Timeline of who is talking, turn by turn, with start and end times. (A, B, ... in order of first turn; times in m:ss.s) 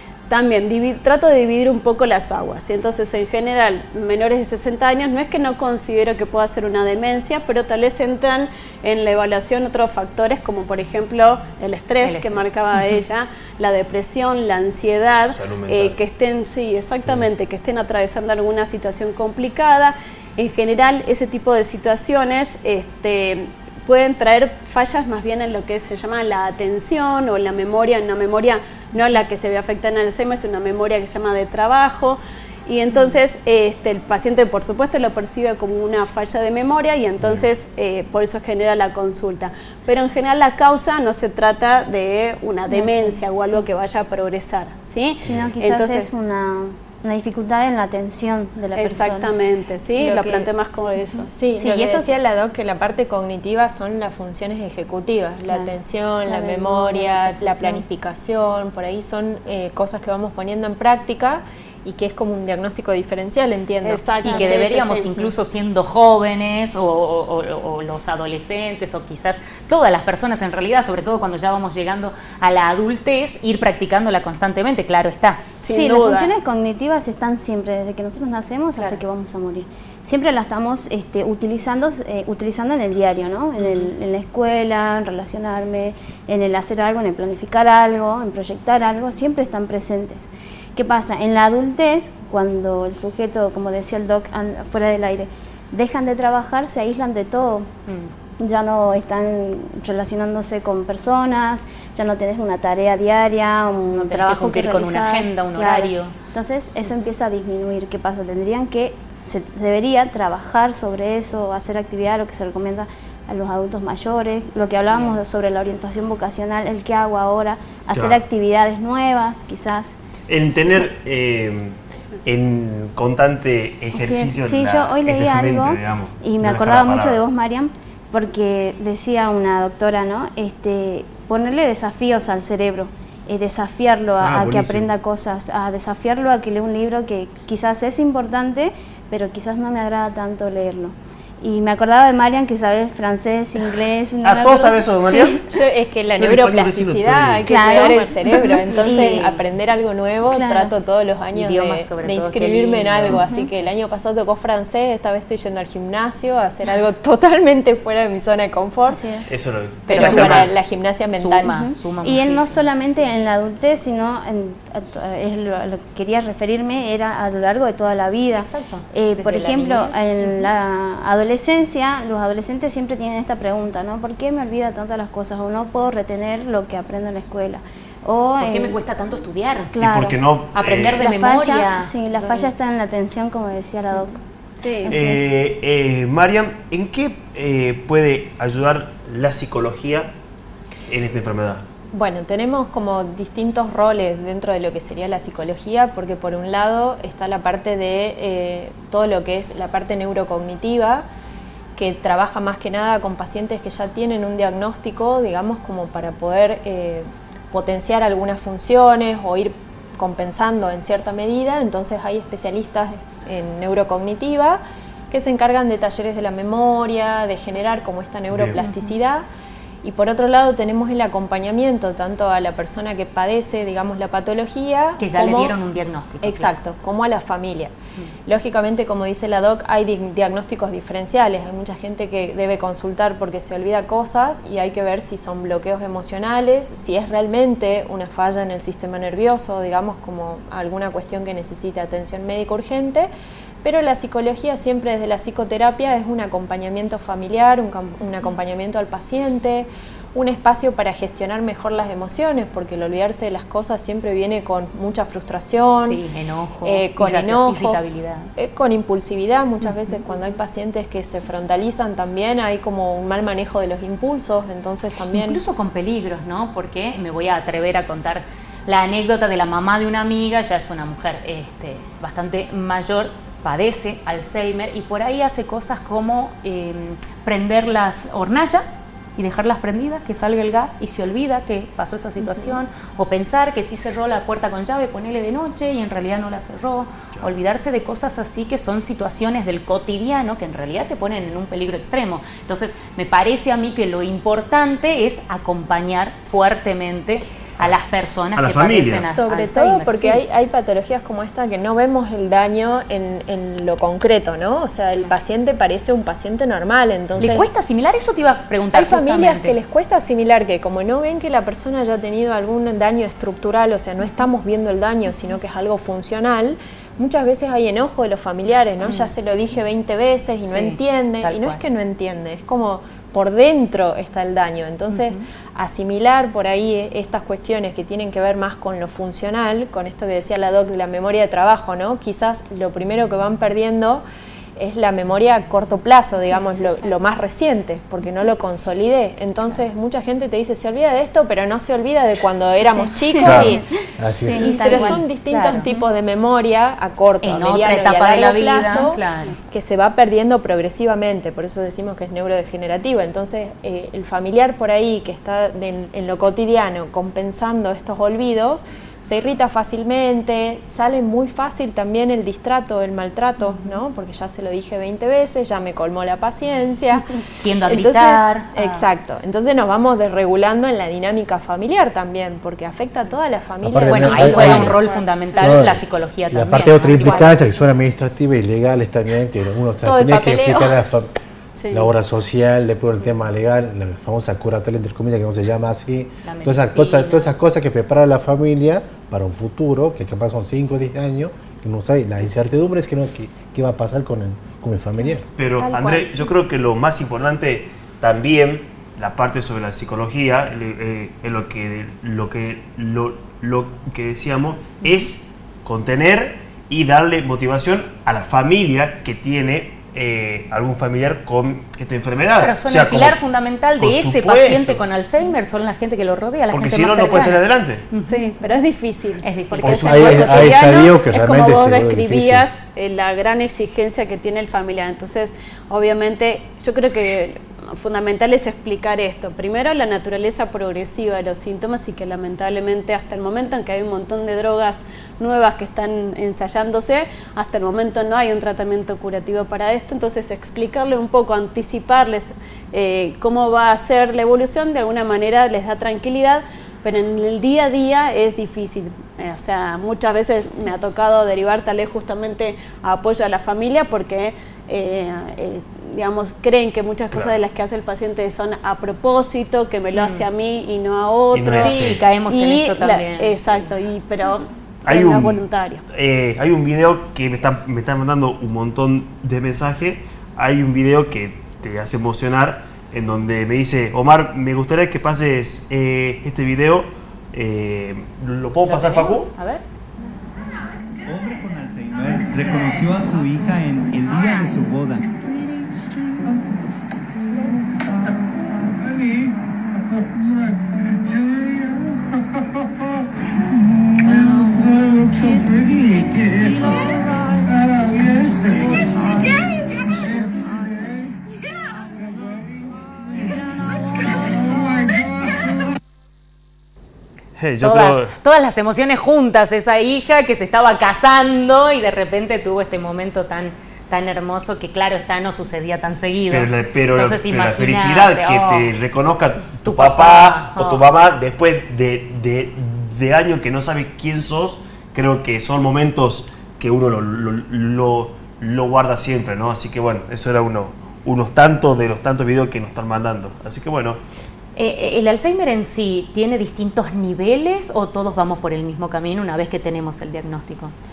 0:00.3-0:46.1 A
0:12.0-0:13.0 B
0:15.3-0:16.0 C
0:37.2-0:37.5 C
0:42.7-0:43.6 D
0:45.2-0:49.3 D
0:45.2-0:45.5 C
0:48.7-0:51.3 A
0:50.0-0:50.5 E
0:51.2-0:52.1 D
0:51.3-1:04.6 E
0:55.5-0:57.8 D
1:03.8-1:05.3 A
1:04.2-1:15.5 B
1:15.6-1:16.3 A
1:15.7-1:37.7 D
1:18.8-1:19.0 B
1:23.6-1:23.9 B
1:37.9-1:38.1 B
1:38.4-2:00.0 D
1:43.9-1:46.1 B
1:57.9-1:58.2 C
2:00.3-2:07.2 C
2:00.6-2:00.9 D
2:03.9-2:25.5 D
2:14.2-2:14.9 C
2:24.2-2:25.4 C
2:25.5-2:39.0 E
2:26.2-2:27.7 C
2:27.5-2:29.4 D
2:27.7-2:28.0 A
2:29.1-2:29.4 B
2:30.3-2:30.7 D
2:31.4-2:33.2 B
2:33.1-2:33.5 D
2:38.9-2:39.3 D
2:39.3-2:40.5 C
2:39.9-2:41.6 E
2:39.9-2:40.5 B
2:41.1-2:42.7 B
2:41.5-2:58.8 D
2:48.4-2:50.5 B
2:58.4-2:59.7 B
2:59.7-3:00.2 D
2:59.8-3:01.0 C
3:00.5-3:02.5 B
3:01.0-3:05.3 D
3:04.6-3:04.9 A
3:04.9-3:10.1 C
3:10.9-3:11.6 C
3:11.9-3:21.1 E
3:21.8-3:34.6 E
3:35.1-3:39.3 E
3:38.3-3:38.6 C
3:39.8-3:45.5 E
3:45.0-3:46.5 B
3:46.2-3:47.7 E
3:48.3-4:03.1 E
4:03.6-4:16.0 E
4:15.8-4:18.3 B
4:16.6-4:17.8 E
4:18.4-4:25.4 E
4:25.1-5:00.2 B
4:42.3-4:42.6 D
4:58.4-4:59.1 C
4:59.0-5:07.5 E
5:07.2-5:09.6 B
5:08.7-5:34.0 E
5:18.8-5:19.1 B
5:20.4-5:21.6 B
5:24.9-5:25.2 B
5:34.6-5:43.6 E
5:36.2-5:37.0 D
5:42.6-5:43.6 D
5:43.2-5:43.6 B
5:44.0-5:44.4 F
5:44.2-5:45.0 D
5:44.3-6:07.0 E
5:44.3-5:45.7 B
5:45.6-5:45.9 D
5:47.2-5:49.4 B
6:07.4-6:08.8 B
6:07.6-6:14.8 E
6:13.6-6:14.8 F
6:13.8-6:17.5 B
6:14.2-6:15.6 A
6:15.4-6:21.1 F
6:19.8-6:20.6 E
6:20.3-6:20.7 A
6:21.6-6:21.9 A
6:21.7-6:35.3 F
6:26.2-6:27.3 B
6:35.4-6:53.2 C
6:35.6-6:36.4 E
6:52.4-6:58.2 B
6:53.8-6:54.8 C
6:56.5-6:57.8 C
6:58.0-7:45.8 A
6:59.2-7:00.6 B
6:59.6-7:02.5 F
7:39.9-7:40.3 B
7:41.3-7:42.0 C
7:41.5-7:43.7 B
7:44.9-7:59.3 C
7:58.7-7:59.6 B
8:01.0-8:05.1 G
8:27.4-8:28.1 C
8:27.6-8:38.7 B
8:36.3-8:54.0 C
8:39.6-8:40.8 B
8:54.6-9:00.7 B